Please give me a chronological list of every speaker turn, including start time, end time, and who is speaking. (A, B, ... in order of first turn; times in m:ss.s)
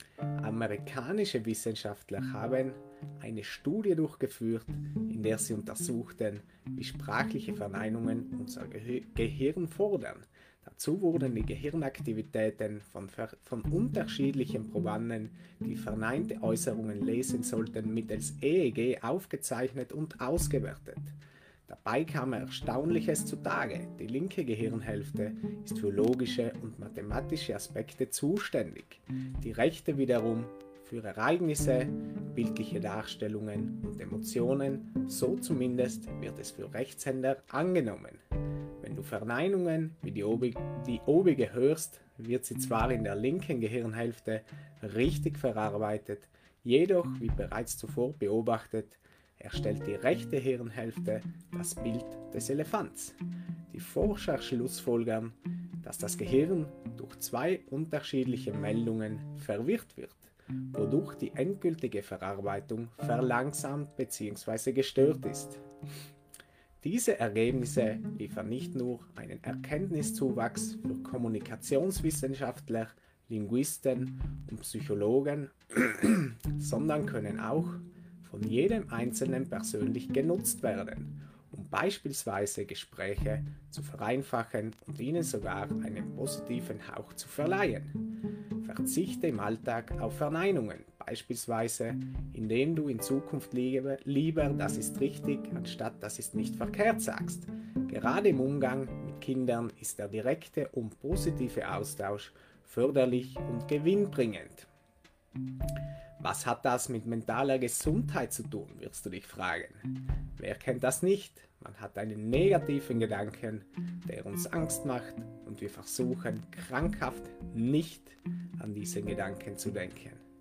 0:00.4-0:21.1 A
0:21.7-0:38.2 A
0:38.8-0:53.2 A
0:53.7-1:05.6 A
1:06.8-1:28.0 A
1:28.6-1:44.7 A
1:46.2-2:00.2 A